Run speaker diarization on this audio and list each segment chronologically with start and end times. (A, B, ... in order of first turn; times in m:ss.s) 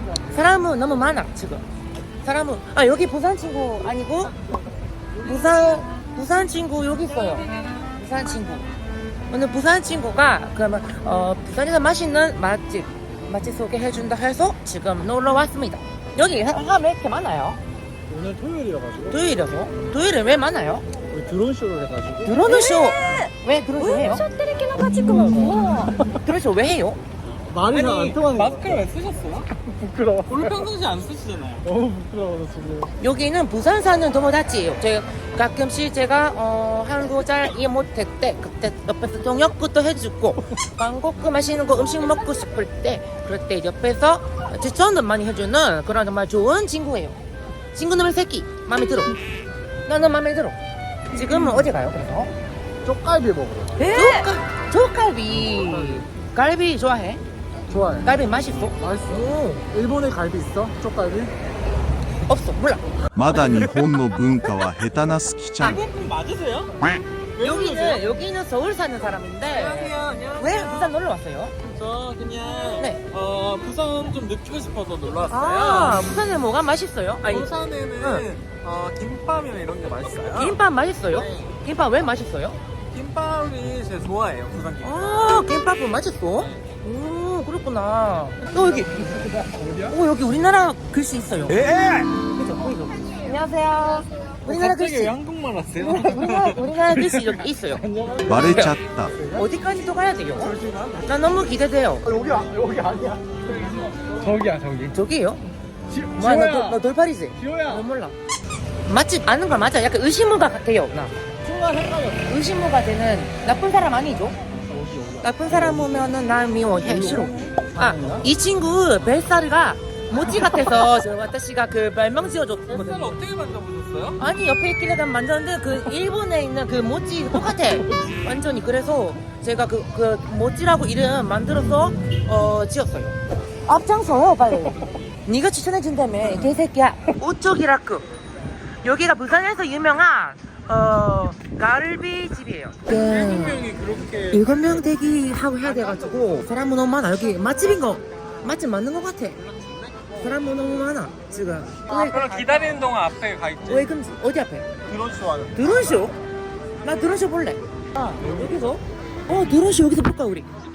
0:00.3-0:01.6 A
0:02.2-0:04.3 A
0:05.2-0:08.7 A
0:09.3-0:17.6 A
0:18.1-0:19.1 B
0:19.1-0:20.8 A
0:21.1-0:22.3 B
0:22.2-0:24.2 A
0:22.5-0:25.9 C
0:25.1-0:25.4 B
0:26.1-0:27.0 A
0:27.5-0:28.7 B
0:27.6-0:29.5 D
0:29.7-0:30.5 B
0:30.2-0:31.7 D
0:31.7-0:32.9 B
0:33.0-0:47.2 A
0:47.7-0:49.2 A
0:49.9-0:50.6 A
0:51.1-0:52.3 A
0:52.8-0:53.8 B
0:53.8-0:54.2 C
0:53.8-0:57.2 A
0:57.7-0:58.0 B
0:58.0-0:59.6 A
0:58.8-0:59.1 B
0:59.7-1:01.3 B
1:02.2-1:02.8 A
1:03.1-1:05.8 E
1:03.4-1:03.8 D
1:05.6-1:08.0 D
1:07.4-1:11.5 A
1:09.5-1:10.9 D
1:11.7-1:16.2 D
1:15.3-1:17.5 A
1:17.2-1:20.6 D
1:20.3-1:22.6 A
1:21.2-1:21.5 D
1:22.9-1:25.5 D
1:24.8-1:29.3 A
1:29.4-1:29.8 B
1:29.8-1:35.1 A
1:34.5-1:37.3 D
1:35.8-1:37.8 A
1:37.9-1:38.3 B
1:38.2-1:39.2 E
1:38.4-1:38.7 A
1:39.3-1:42.1 A
1:42.1-1:44.8 B
1:44.8-1:45.4 A
1:45.9-1:46.8 B
1:46.2-1:48.2 A
1:48.8-1:51.1 A
1:51.4-1:52.1 B
1:52.1-1:54.4 A
1:54.6-1:55.1 B
1:55.2-2:03.2 A
1:57.4-1:58.2 B
2:02.7-2:04.2 D
2:04.2-2:18.1 A
2:18.8-2:23.6 A
2:22.9-2:24.5 D
2:24.3-2:29.4 A
2:29.5-2:30.0 D
2:30.1-2:32.4 A
2:31.9-2:33.9 D
2:33.7-2:34.7 A
2:34.9-2:35.5 D
2:35.6-2:36.2 A
2:36.8-2:40.5 A